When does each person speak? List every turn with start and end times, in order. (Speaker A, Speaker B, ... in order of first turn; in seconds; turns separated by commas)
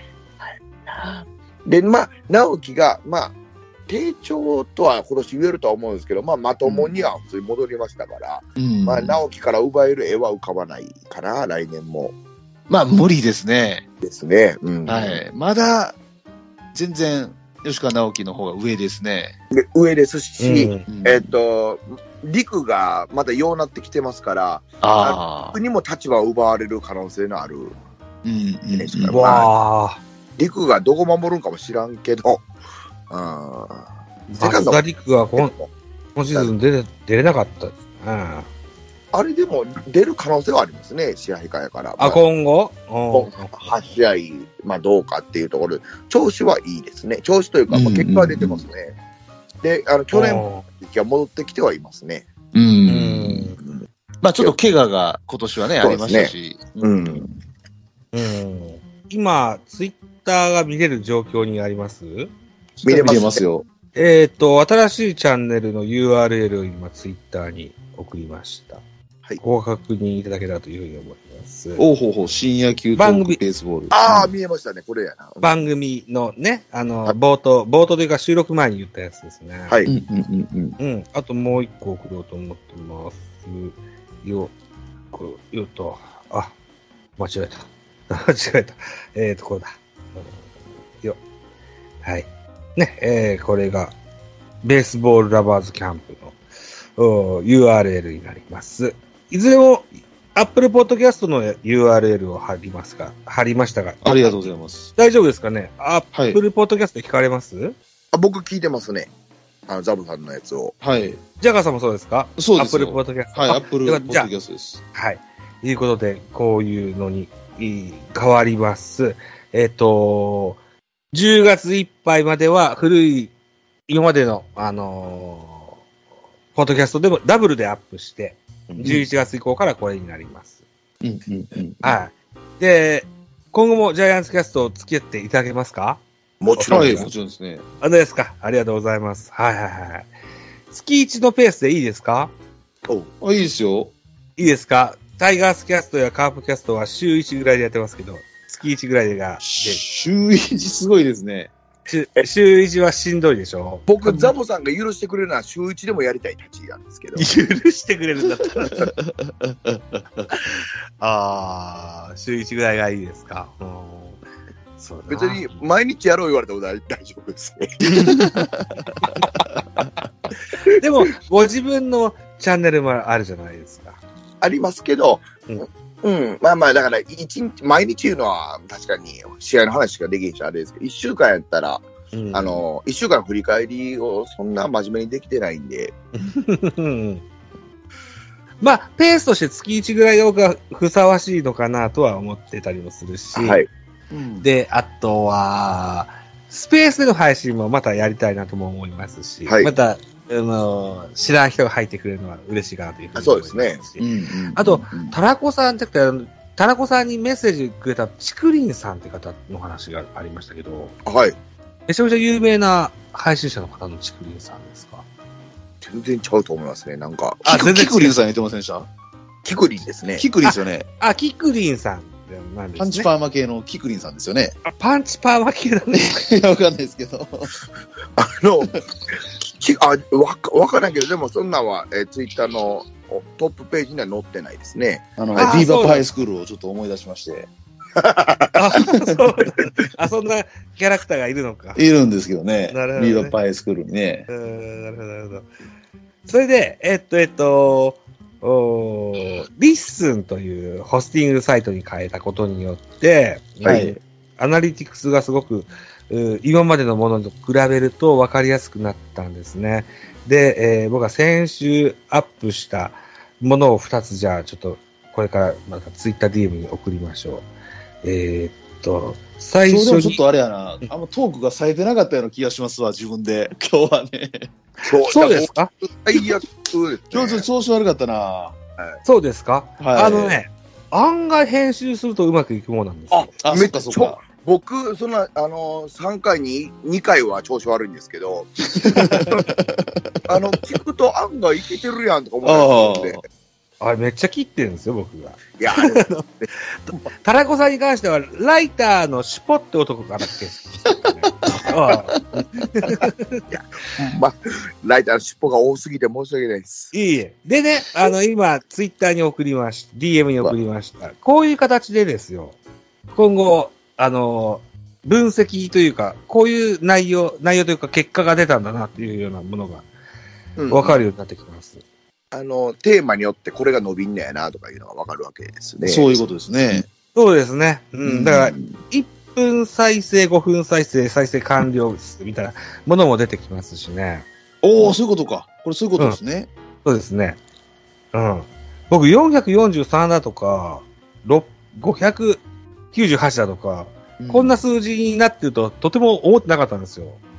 Speaker A: 0.4-3.4, Speaker A: 3.9-12.2, Speaker B: 6.6-7.0, Speaker B: 8.6-9.2, Speaker B: 12.7-13.8, Speaker A: 14.0-15.2, Speaker B: 14.9-16.0, Speaker B: 16.7-19.4, Speaker A: 19.5-27.8, Speaker C: 20.4-20.9, Speaker B: 20.9-21.3, Speaker B: 24.8-25.6, Speaker B: 28.2-29.2, Speaker A: 28.7-29.5, Speaker C: 29.1-30.0, Speaker A: 30.4-32.5, Speaker A: 33.1-33.9, Speaker C: 34.3-35.5, Speaker A: 34.4-34.8, Speaker A: 35.4-35.7, Speaker C: 36.1-38.5, Speaker A: 39.1-42.2, Speaker C: 42.0-43.7, Speaker A: 43.1-49.0, Speaker B: 47.7-48.6, Speaker A: 49.6-52.3, Speaker C: 50.1-50.6, Speaker B: 52.5-53.5, Speaker C: 52.9-53.6, Speaker B: 54.2-57.3, Speaker A: 55.8-57.3, Speaker C: 58.1-62.3, Speaker B: 62.8-63.7, Speaker A: 62.8-63.4, Speaker C: 64.0-68.8, Speaker C: 69.4-71.8, Speaker B: 71.8-74.3, Speaker C: 73.0-73.4, Speaker A: 73.9-75.6, Speaker C: 75.4-79.7, Speaker B: 79.9-80.8, Speaker C: 80.8-84.5, Speaker C: 85.1-86.5, Speaker C: 87.2-90.3, Speaker C: 92.0-93.9, Speaker C: 94.6-96.4, Speaker C: 97.0-104.4, Speaker B: 104.0-104.9, Speaker C: 105.0-107.8, Speaker B: 106.1-106.4, Speaker A: 108.1-109.1, Speaker A: 109.7-110.8, Speaker B: 110.8-111.2, Speaker C: 111.4-114.3, Speaker B: 112.4-114.8, Speaker C: 114.9-120.6, Speaker C: 121.1-123.3, Speaker C: 123.9-125.7, Speaker C: 126.5-130.6, Speaker B: 131.0-132.0, Speaker C: 131.8-136.0, Speaker A: 136.4-137.1, Speaker C: 136.5-137.1, Speaker B: 136.7-137.6, Speaker C: 137.8-140.1, Speaker C: 140.7-142.3, Speaker B: 143.2-143.9, Speaker C: 144.4-149.8, Speaker B: 149.4-151.5, Speaker C: 151.9-153.9, Speaker A: 153.9-157.3, Speaker B: 154.0-154.3, Speaker C: 157.2-158.9, Speaker B: 158.9-160.3, Speaker C: 160.3-164.2, Speaker C: 164.8-165.6, Speaker A: 165.1-167.9, Speaker C: 167.9-168.2, Speaker B: 167.9-168.9, Speaker C: 170.8-174.0, Speaker A: 174.4-175.3, Speaker A: 176.0-186.0, Speaker C: 182.1-182.7, Speaker C: 186.2-187.2, Speaker C: 188.6-193.6, Speaker A: 193.3-193.7, Speaker B: 194.1-194.5, Speaker C: 194.4-210.9, Speaker A: 199.5-199.7, Speaker A: 203.2-203.8, Speaker B: 204.0-205.2, Speaker A: 211.1-211.4, Speaker C: 211.9-215.1, Speaker A: 215.8-217.4, Speaker C: 217.4-218.2, Speaker B: 217.4-218.9, Speaker A: 219.4-220.3, Speaker B: 220.2-220.9, Speaker C: 220.4-223.1, Speaker B: 222.8-224.6, Speaker C: 224.6-226.2, Speaker B: 225.9-227.5, Speaker A: 228.2-235.7, Speaker B: 235.2-237.5, Speaker C: 235.3-236.1, Speaker A: 238.0-238.6, Speaker C: 238.5-241.8, Speaker B: 241.8-244.3, Speaker C: 242.7-243.4, Speaker C: 244.3-245.5, Speaker C: 246.3-267.5, Speaker B: 253.7-254.0, Speaker C: 268.0-270.2, Speaker B: 269.7-274.5, Speaker A: 274.8-277.5, Speaker C: 274.8-275.7, Speaker B: 277.1-278.6, Speaker C: 279.0-283.3, Speaker B: 279.8-280.4, Speaker A: 283.1-289.4, Speaker B: 283.4-284.2, Speaker B: 288.8-290.4, Speaker A: 290.3-293.2, Speaker B: 292.4-293.2, Speaker C: 293.8-303.4, Speaker A: 295.6-296.5, Speaker A: 303.5-306.9, Speaker C: 306.9-312.6, Speaker C: 313.1-319.9, Speaker A: 320.6-321.0, Speaker C: 320.7-321.8, Speaker A: 322.3-326.2, Speaker B: 325.8-326.9, Speaker C: 327.1-334.3, Speaker B: 328.0-328.5, Speaker B: 334.6-336.5, Speaker C: 336.9-337.4, Speaker C: 338.1-342.4, Speaker C: 342.9-347.2, Speaker B: 344.2-344.6